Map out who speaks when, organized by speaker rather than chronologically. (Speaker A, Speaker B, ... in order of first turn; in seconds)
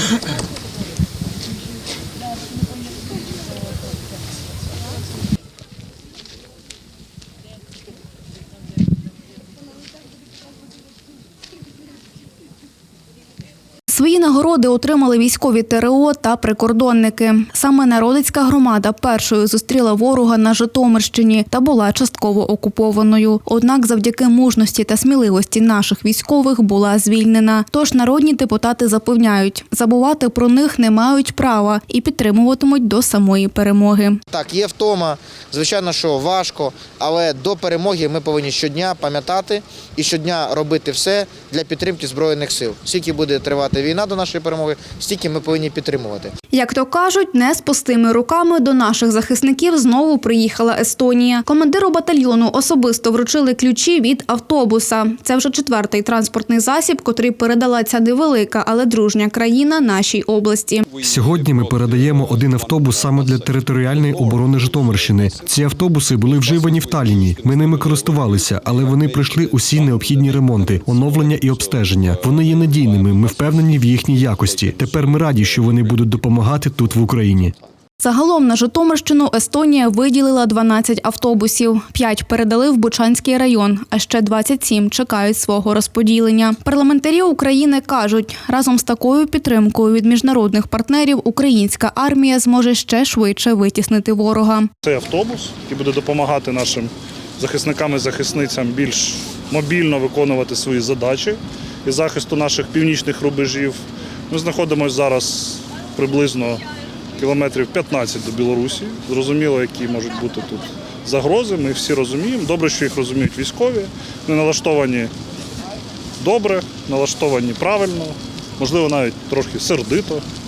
Speaker A: 13.9-34.2, 46.5-60.9, 78.0-94.7
Speaker B: 34.3-46.3
Speaker C: 61.0-77.5
Speaker D: 94.8-106.6, 107.2-115.1, 116.2-120.2